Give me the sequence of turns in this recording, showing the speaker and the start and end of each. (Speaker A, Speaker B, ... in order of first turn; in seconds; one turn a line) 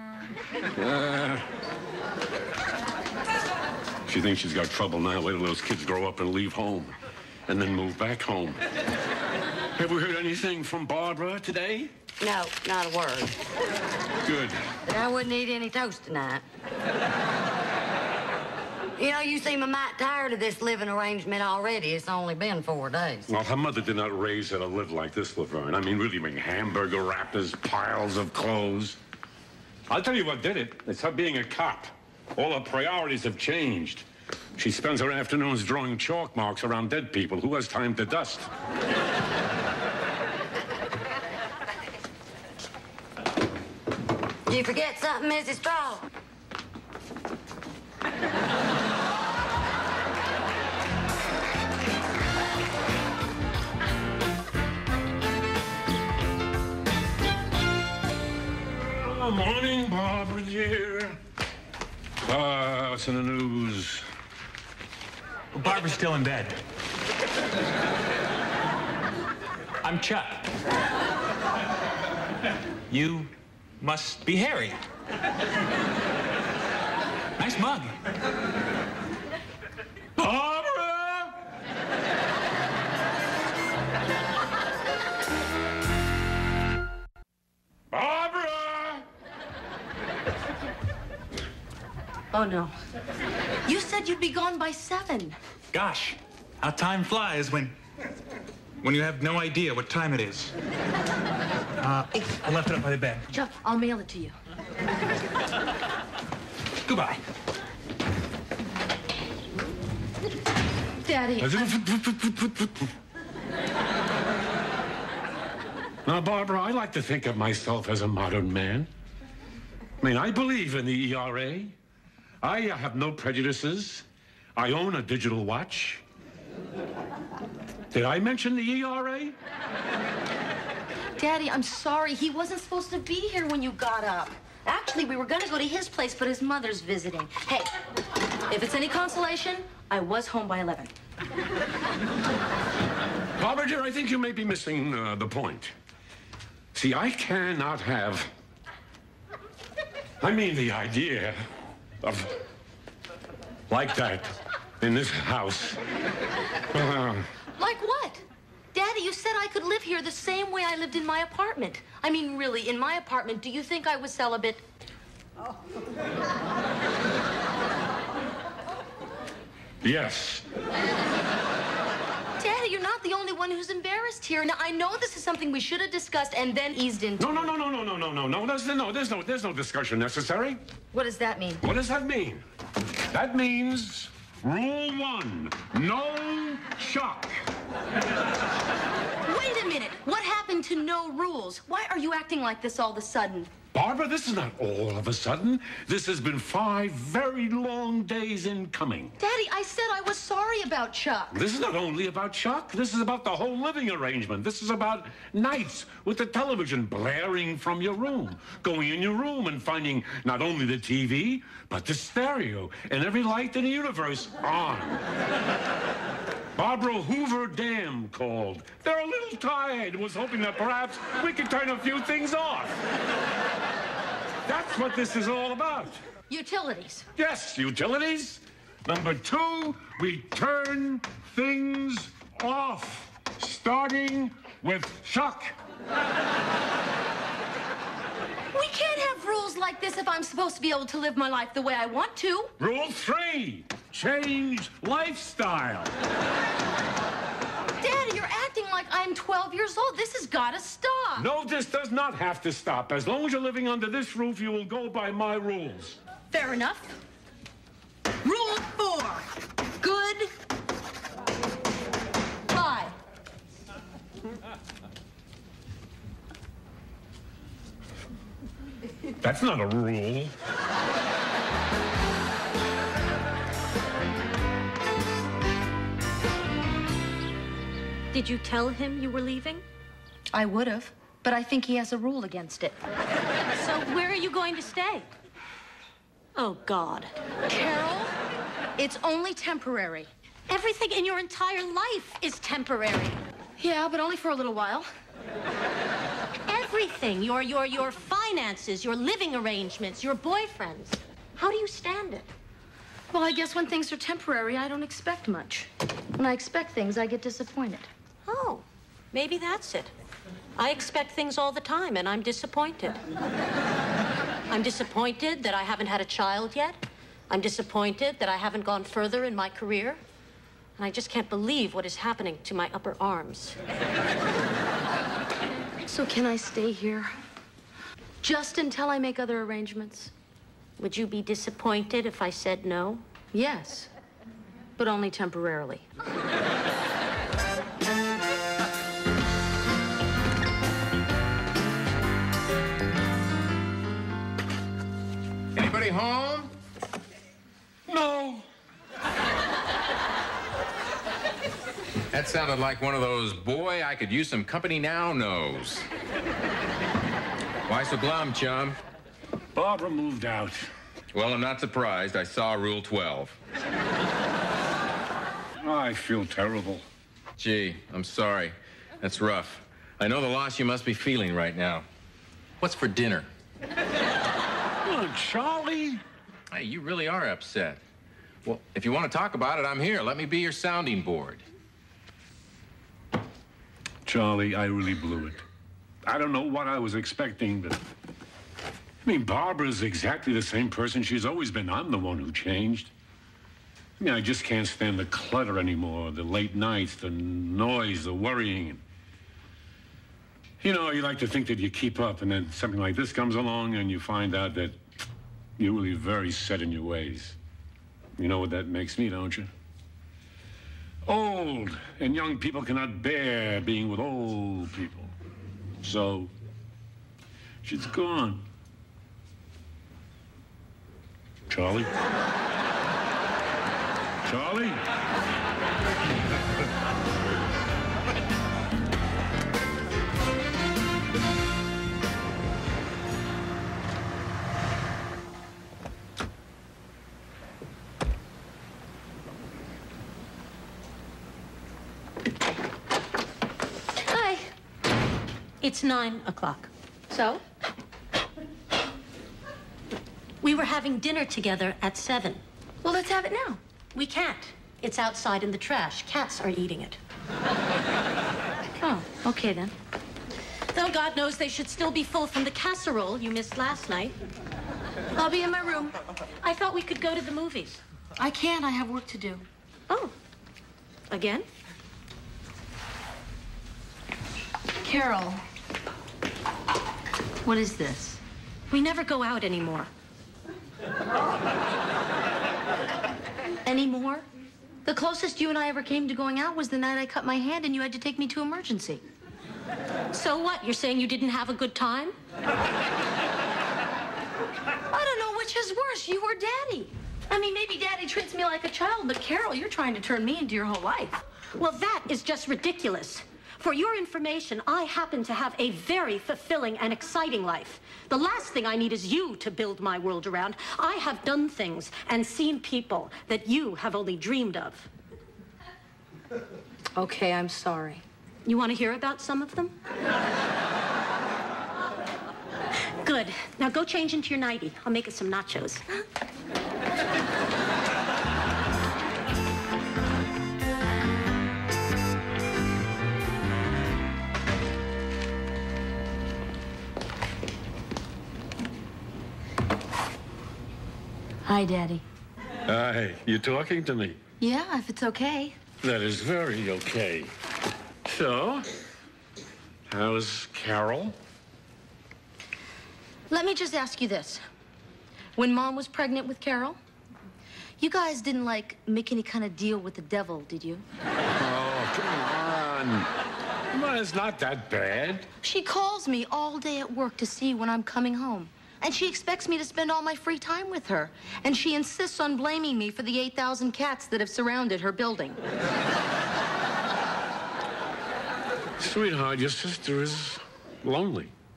Speaker A: 0.7-1.5
Speaker A: 4.0-6.9
Speaker A: 7.5-8.6
Speaker A: 9.7-11.9
Speaker B: 12.2-13.4
Speaker A: 14.2-14.7
Speaker B: 14.9-16.4
Speaker B: 19.0-23.3
Speaker A: 23.3-29.0
Speaker A: 29.9-34.0
Speaker A: 34.5-38.5
Speaker B: 44.5-46.0
Speaker A: 58.7-61.2
Speaker A: 62.2-64.1
Speaker C: 65.5-66.6
Speaker C: 69.8-70.5
Speaker C: 72.9-74.8
Speaker C: 77.4-78.0
Speaker A: 80.2-81.4
Speaker A: 87.9-89.0
Speaker D: 92.3-92.8
Speaker D: 93.7-95.4
Speaker C: 95.7-97.7
Speaker C: 98.8-100.5
Speaker C: 101.8-103.3
Speaker D: 103.3-104.3
Speaker C: 106.8-107.2
Speaker D: 111.0-111.8
Speaker A: 111.4-112.9
Speaker A: 116.0-118.9
Speaker A: 120.0-121.7
Speaker A: 122.4-126.0
Speaker A: 127.9-129.3
Speaker D: 131.2-137.7
Speaker D: 138.5-140.9
Speaker A: 143.4-145.7
Speaker A: 146.7-148.3
Speaker A: 150.2-151.4
Speaker A: 152.0-152.4
Speaker A: 153.7-155.8
Speaker A: 156.7-157.3
Speaker D: 157.6-164.6
Speaker A: 169.8-170.4
Speaker D: 172.4-177.4
Speaker A: 177.2-180.6
Speaker D: 180.9-181.6
Speaker A: 181.6-182.4
Speaker A: 183.1-187.4
Speaker D: 189.2-193.5
Speaker A: 193.7-199.2
Speaker D: 199.2-201.3
Speaker A: 201.3-215.0
Speaker A: 216.6-222.8
Speaker A: 224.4-226.0
Speaker D: 226.3-227.1
Speaker A: 227.2-235.6
Speaker D: 238.5-242.5
Speaker A: 242.6-245.9
Speaker D: 247.8-251.3
Speaker A: 251.2-256.0
Speaker D: 256.3-257.0
Speaker D: 258.2-260.3
Speaker D: 262.5-262.9
Speaker A: 269.2-270.3
Speaker E: 278.1-279.6
Speaker D: 280.3-282.8
Speaker E: 283.5-285.1
Speaker E: 286.3-287.1
Speaker D: 287.5-288.1
Speaker D: 288.8-290.1
Speaker E: 290.5-293.2
Speaker D: 293.6-294.9
Speaker E: 296.5-302.3
Speaker D: 303.1-307.9
Speaker E: 308.2-309.9
Speaker E: 310.6-313.0
Speaker E: 314.5-316.8
Speaker E: 317.3-320.0
Speaker E: 320.8-323.6
Speaker D: 325.9-327.1
Speaker D: 328.2-330.1
Speaker E: 330.8-333.0
Speaker D: 333.3-333.9
Speaker D: 334.8-335.9
Speaker F: 345.5-346.5
Speaker A: 347.9-348.4
Speaker F: 352.1-355.8
Speaker F: 357.7-358.8
Speaker A: 359.5-360.7
Speaker F: 361.1-363.4
Speaker A: 365.6-366.8
Speaker F: 367.4-371.8
Speaker F: 372.6-373.3
Speaker A: 374.8-376.0
Speaker F: 376.5-377.8
Speaker F: 378.4-381.4
Speaker A: 384.1-385.4
Speaker A: 386.1-387.8
Speaker A: 389.0-392.9
Speaker A: 394.0-398.8
Speaker A: 400.6-404.8
Speaker A: 405.6-407.4
Speaker A: 408.2-409.5
Speaker A: 411.1-415.1
Speaker A: 415.8-416.3
Speaker A: 417.6-418.4
Speaker A: 421.5-421.9
Speaker A: 424.2-424.8
Speaker D: 444.1-444.5
Speaker E: 445.6-446.7
Speaker D: 447.1-447.4
Speaker E: 450.4-452.4
Speaker D: 452.8-453.6
Speaker E: 453.9-457.0
Speaker D: 458.8-459.7
Speaker E: 460.7-464.1
Speaker D: 465.1-465.9
Speaker E: 466.4-467.8
Speaker D: 468.2-469.4
Speaker E: 469.9-470.1
Speaker E: 471.1-471.4
Speaker D: 474.8-475.4
Speaker D: 477.4-478.2
Speaker E: 478.7-479.9
Speaker D: 483.6-484.2
Speaker D: 484.8-489.0
Speaker E: 490.1-492.1
Speaker D: 494.9-501.2
Speaker E: 501.6-514.9
Speaker D: 517.0-518.0
Speaker E: 518.4-519.7
Speaker E: 523.0-525.9
Speaker D: 541.4-542.0
Speaker A: 542.6-544.2
Speaker D: 544.4-545.5
Speaker A: 545.8-547.3
Speaker A: 548.0-548.7
Speaker A: 549.9-551.2
Speaker D: 553.3-554.4
Speaker D: 555.4-556.8
Speaker D: 557.8-560.8
Speaker A: 561.3-563.1
Speaker A: 563.7-565.3
Speaker D: 565.4-575.4
Speaker A: 578.8-581.3